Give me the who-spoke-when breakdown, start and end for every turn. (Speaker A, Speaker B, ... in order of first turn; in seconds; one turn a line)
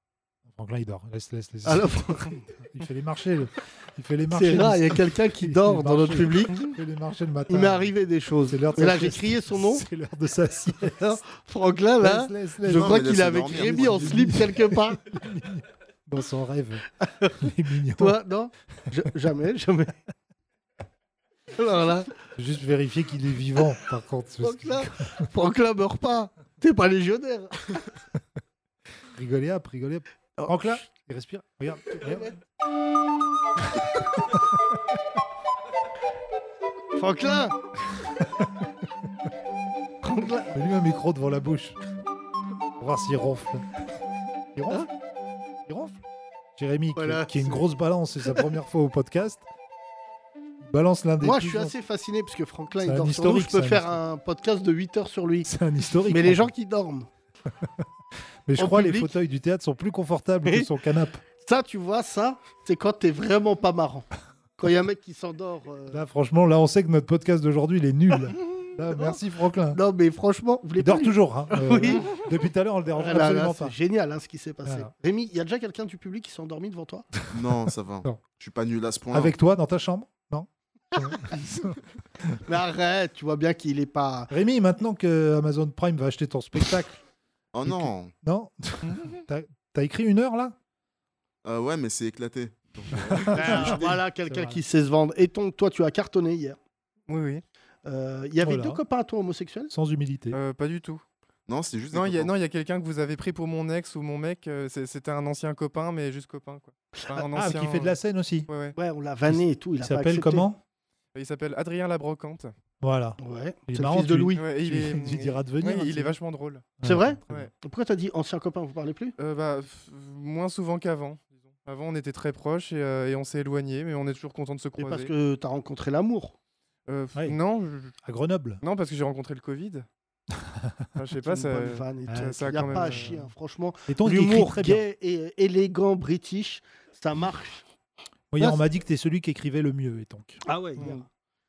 Speaker A: 0.5-7.9
Speaker B: 1.6-2.4
Speaker B: 4.3-6.7
Speaker B: 7.5-9.8
Speaker A: 8.5-11.2
Speaker B: 11.0-15.0
Speaker A: 12.0-18.2
Speaker C: 12.6-14.3
Speaker B: 18.0-19.9
Speaker B: 21.6-22.1
Speaker A: 22.4-25.2
Speaker B: 24.4-27.8
Speaker A: 29.1-32.3
Speaker B: 30.4-30.8
Speaker B: 37.0-37.6
Speaker B: 40.0-40.5
Speaker A: 40.5-41.8
Speaker A: 42.8-43.7
Speaker A: 44.5-44.9
Speaker A: 45.7-46.0
Speaker A: 46.6-49.5
Speaker B: 47.0-47.6
Speaker A: 50.6-51.7
Speaker B: 51.2-55.5
Speaker A: 52.8-54.0
Speaker A: 55.5-56.5
Speaker B: 56.1-57.1
Speaker A: 58.5-61.2
Speaker B: 58.6-59.1
Speaker B: 61.4-64.1
Speaker B: 64.6-66.0
Speaker A: 65.9-69.8
Speaker B: 69.7-72.1
Speaker A: 70.8-73.8
Speaker B: 73.0-77.1
Speaker A: 74.7-74.9
Speaker C: 77.3-79.4
Speaker A: 79.1-81.8
Speaker B: 82.5-84.3
Speaker A: 84.3-87.0
Speaker C: 87.5-88.1
Speaker A: 87.6-90.5
Speaker D: 88.8-89.2
Speaker C: 91.4-94.0
Speaker A: 93.0-94.6
Speaker B: 93.3-96.6
Speaker D: 97.1-97.4
Speaker B: 97.8-99.7
Speaker A: 98.4-98.8
Speaker A: 99.7-100.4
Speaker D: 100.3-101.0
Speaker C: 101.5-102.3
Speaker D: 101.9-108.0
Speaker A: 107.3-108.5
Speaker D: 108.5-108.8
Speaker B: 108.8-110.5
Speaker A: 109.3-110.6
Speaker D: 111.2-112.5
Speaker A: 112.8-116.2
Speaker B: 113.2-114.5
Speaker D: 114.4-117.5
Speaker A: 116.8-117.5
Speaker B: 116.8-119.2
Speaker D: 119.2-125.1
Speaker B: 124.8-126.3
Speaker D: 126.9-128.0
Speaker A: 128.0-128.6
Speaker D: 128.6-129.9
Speaker A: 130.5-130.8
Speaker D: 130.9-133.3
Speaker B: 131.3-137.6
Speaker A: 132.1-133.2
Speaker A: 133.9-134.8
Speaker A: 138.3-140.4
Speaker B: 138.4-138.6
Speaker B: 140.4-141.1
Speaker D: 140.8-141.0